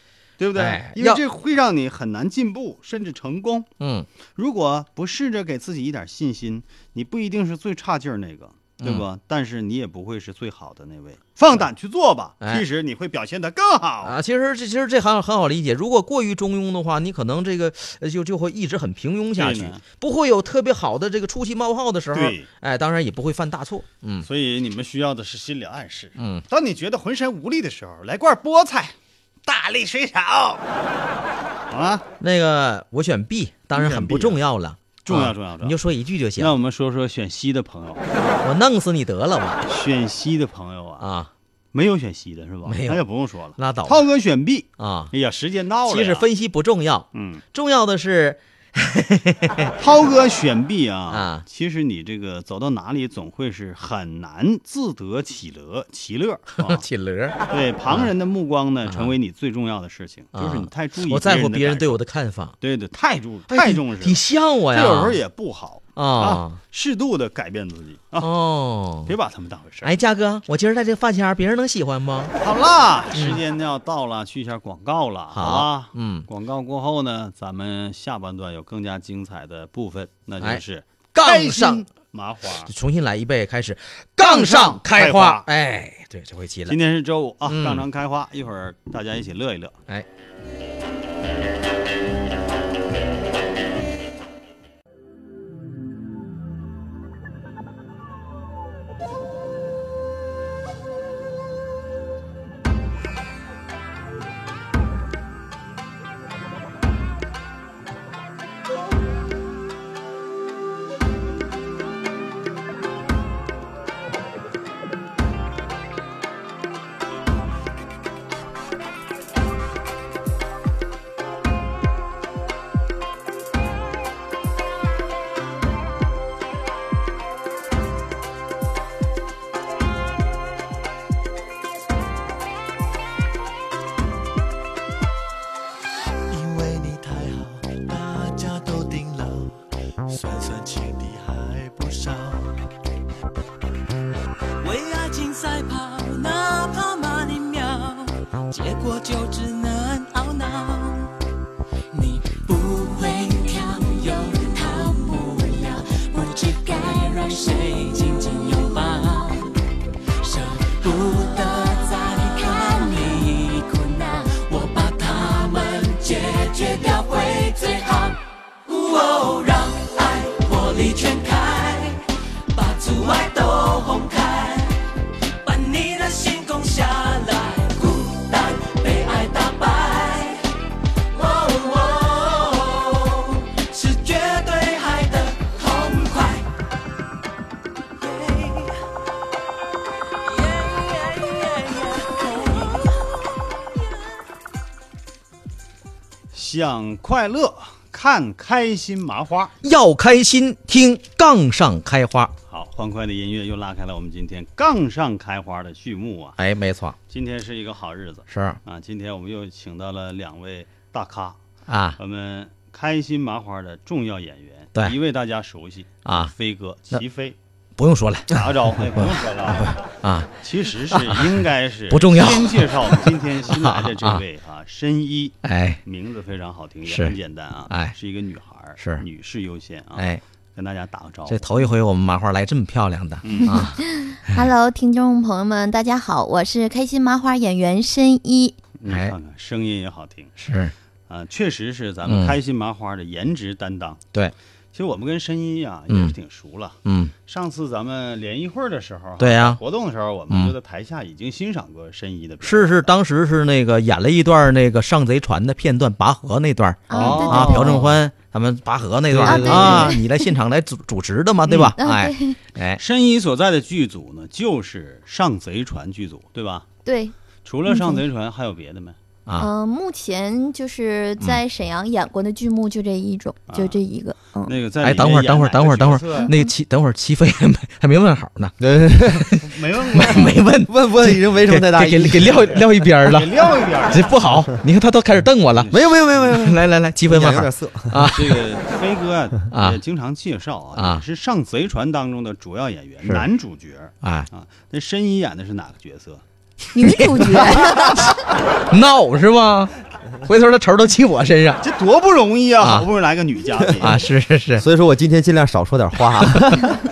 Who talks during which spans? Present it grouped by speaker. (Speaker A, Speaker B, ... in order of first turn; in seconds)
Speaker A: 0.4-3.7, 4.3-14.2, 19.4-19.8, 22.1-22.5, 24.2-28.9, 29.4-30.6, 31.7-32.0, 33.7-34.4, 35.0-35.8, 36.4-38.0, 39.6-41.1, 41.7-46.3, 47.1-47.4, 49.8-56.8, 57.5-62.0, 62.6-68.3, 69.0-69.9, 72.4-82.7, 84.2-85.5, 86.7-89.7, 196.3-199.5, 202.5-206.4, 207.1-211.4, 211.9-217.3, 218.3-219.8, 220.4-231.5, 233.2-233.6, 238.8-240.3, 241.1-244.0, 244.7-252.9, 256.9-257.9, 261.4-261.7, 262.8-266.7, 267.4-269.0, 273.5-273.8, 274.4-276.3, 279.4-280.4, 282.2-284.4, 285.5-286.3, 288.0-296.2, 301.6-304.0
Speaker B: 0.6-1.2, 3.8-4.1, 14.0-24.3, 26.2-26.4, 32.2-36.5, 38.4-39.6, 41.0-41.3, 42.6-43.0, 43.5-44.0, 44.8-45.1, 45.9-49.7, 51.1-51.4, 56.6-58.1, 58.9-59.1, 60.3-62.5, 63.5-65.2, 66.0-66.6, 68.2-69.1, 69.8-72.3, 73.1-73.4, 75.3-76.3, 81.1-81.8, 82.6-86.8, 87.5-87.8, 199.6-202.3, 206.4-207.0, 208.3-208.6, 211.7-212.0, 216.0-216.3, 217.8-220.3, 220.9-224.2, 225.4-225.8, 226.8-227.2, 227.7-227.9, 228.8-229.0, 229.9-230.2, 231.3-234.5, 238.9-239.1, 240.4-240.7, 242.0-242.3, 245.9-246.1, 246.8-247.1, 249.2-249.6, 250.3-250.5, 252.4-262.8, 274.8-279.4, 279.9-288.4, 289.5-289.8, 290.7-291.0, 294.0-294.3, 296.8-298.1, 298.6-301.6, 302.6-302.9, 303.8-304.6
Speaker C: 136.3-139.6, 140.1-142.5, 144.6-151.1, 151.9-159.5, 160.2-172.0, 172.5-174.8, 175.4-180.4, 181.1-186.5, 188.0-188.7, 190.2-193.2
Speaker D: 233.5-238.6, 256.9-257.8, 259.2-260.3, 261.8-262.4, 266.8-267.1, 267.7-268.0, 269.4-274.6, 296.7-298.2
Speaker E: 257.0-257.2, 259.1-259.9, 278.6-279.3, 280.7-282.6, 285.7-288.1, 304.6-306.8